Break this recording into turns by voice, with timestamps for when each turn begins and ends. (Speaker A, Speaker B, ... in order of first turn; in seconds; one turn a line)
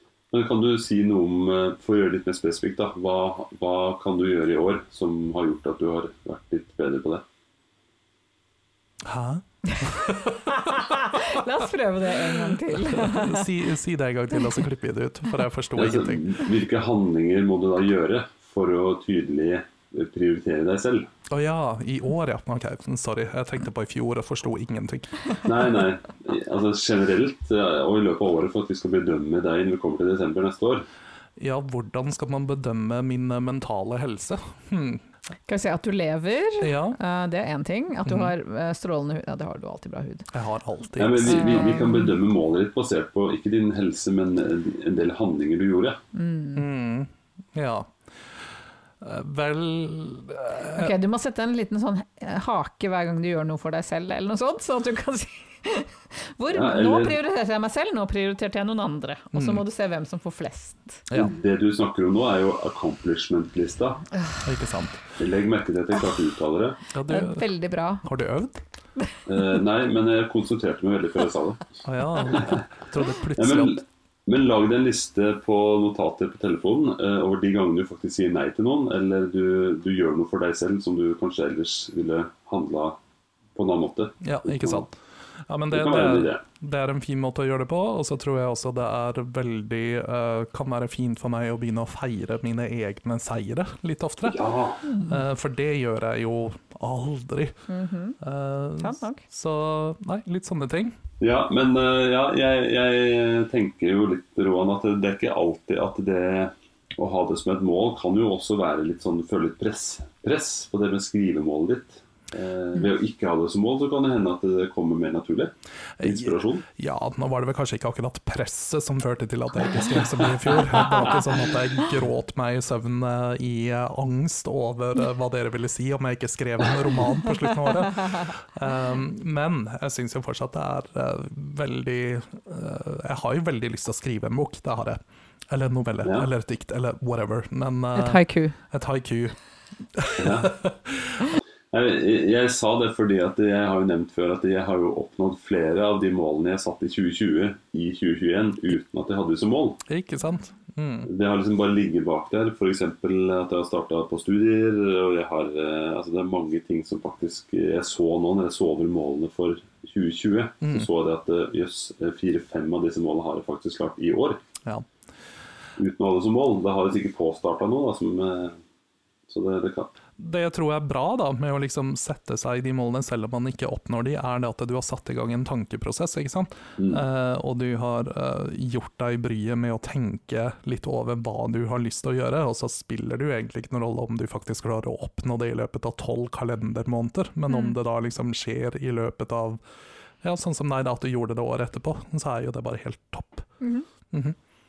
Speaker A: 0.3-7.2
Speaker B: 9.0-10.6
Speaker C: 9.7-13.5
Speaker B: 12.7-16.2
Speaker A: 15.8-21.1
Speaker B: 21.3-25.4
Speaker A: 25.4-30.9
Speaker B: 31.4-35.0
Speaker C: 35.5-40.3
Speaker B: 36.6-37.0
Speaker B: 38.0-38.3
Speaker B: 40.3-42.0
Speaker A: 41.0-46.0
Speaker C: 41.2-42.1
Speaker C: 46.1-46.7
Speaker B: 46.6-47.9
Speaker B: 49.0-51.0
Speaker C: 50.7-61.0
Speaker A: 56.5-57.2
Speaker B: 59.3-59.6
Speaker A: 61.1-64.0
Speaker B: 64.4-65.0
Speaker A: 65.2-66.8
Speaker B: 66.9-67.4
Speaker C: 67.1-68.1
Speaker B: 68.0-68.6
Speaker A: 69.3-72.7
Speaker B: 71.8-73.8
Speaker A: 73.4-83.0
Speaker A: 83.5-84.9
Speaker B: 84.2-84.9
Speaker B: 85.5-94.5
Speaker A: 85.7-86.4
Speaker A: 94.2-94.8
Speaker C: 94.9-95.2
Speaker B: 95.0-97.6
Speaker C: 97.7-98.2
Speaker B: 98.2-101.0
Speaker C: 98.8-99.2
Speaker A: 101.2-116.7
Speaker B: 116.0-139.4
Speaker A: 120.8-121.2
Speaker A: 136.0-136.3
Speaker C: 137.9-138.6
Speaker B: 139.9-141.3
Speaker A: 140.2-140.6
Speaker A: 141.7-149.8
Speaker B: 149.9-151.1
Speaker A: 151.1-164.4
Speaker B: 160.6-160.9
Speaker A: 165.8-168.6
Speaker A: 169.3-169.9
Speaker B: 170.2-189.6
Speaker A: 176.8-177.0
Speaker C: 187.5-187.8
Speaker B: 190.2-193.5
Speaker C: 193.6-193.9
Speaker B: 194.1-194.4